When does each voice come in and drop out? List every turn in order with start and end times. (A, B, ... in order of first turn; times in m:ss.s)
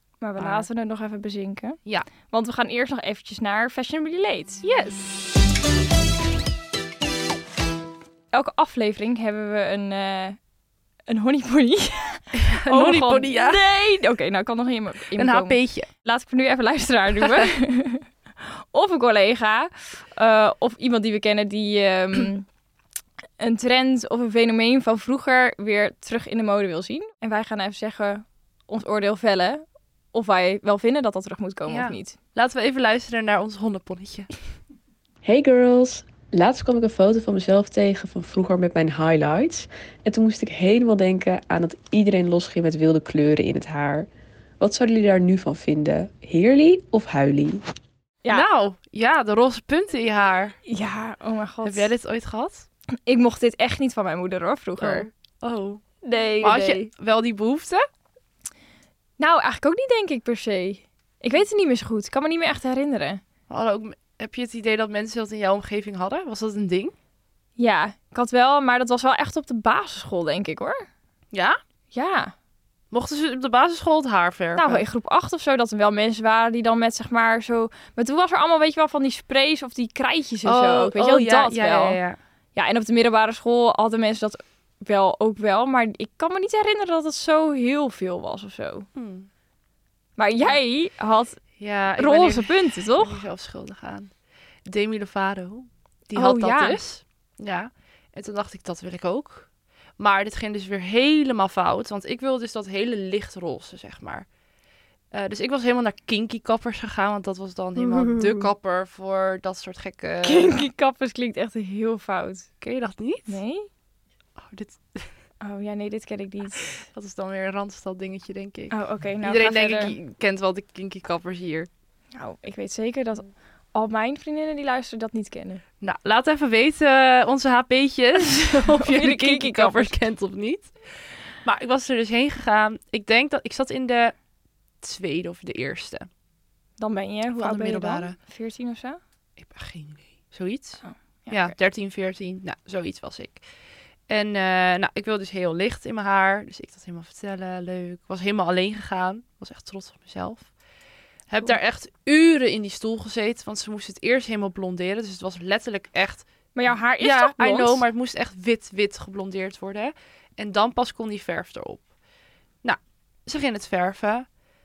0:00.2-0:04.6 A
0:00.4-0:00.7 B
0:04.6-0:05.3 B
0:08.3-0:10.4 A
0:11.1-0:22.5 A
0:12.3-0:13.6 B
0:15.2-0:15.9 B
0:17.2-0:17.5 B
0:23.4-0:32.2 A
0:31.7-0:34.3 B
0:35.2-0:44.1 C
0:44.6-0:47.6 C
0:48.3-0:50.6 B
0:50.7-0:51.9 A
0:51.6-0:52.7 B
0:53.1-0:55.1 A
0:54.8-0:55.8 B
0:56.0-0:56.9 A
0:56.4-0:57.8 B
0:59.2-1:03.2 A
1:03.5-1:07.0 B
1:07.6-1:10.9 A
1:11.3-1:11.6 B
1:11.9-1:12.3 A
1:12.9-1:14.8 B
1:14.6-1:22.0 A
1:20.4-1:22.2 B
1:22.6-1:28.9 A
1:29.0-1:29.3 B
1:30.2-1:31.4 A
1:31.6-1:34.1 B
1:32.0-1:33.2 A
1:34.7-1:44.3 B
1:36.2-1:36.8 A
1:45.1-1:50.6 B
1:47.8-1:48.5 A
1:50.2-1:52.5 A
1:52.6-1:53.4 B
1:53.3-1:53.7 A
1:54.4-1:55.1 B
1:55.4-1:56.8 A
1:56.8-2:01.7 B
1:58.7-2:00.0 A
2:02.2-2:05.6 A
2:05.8-2:10.7 B
2:08.2-2:10.0 A
2:11.4-2:14.2 B
2:14.8-2:16.1 B
2:16.8-2:19.0 A
2:17.4-2:18.2 B
2:19.4-2:23.4 B
2:20.8-2:21.5 A
2:24.1-2:30.5 B
2:31.3-2:36.3 B
2:36.6-2:37.8 A
2:37.0-2:41.8 B
2:42.6-2:44.3 B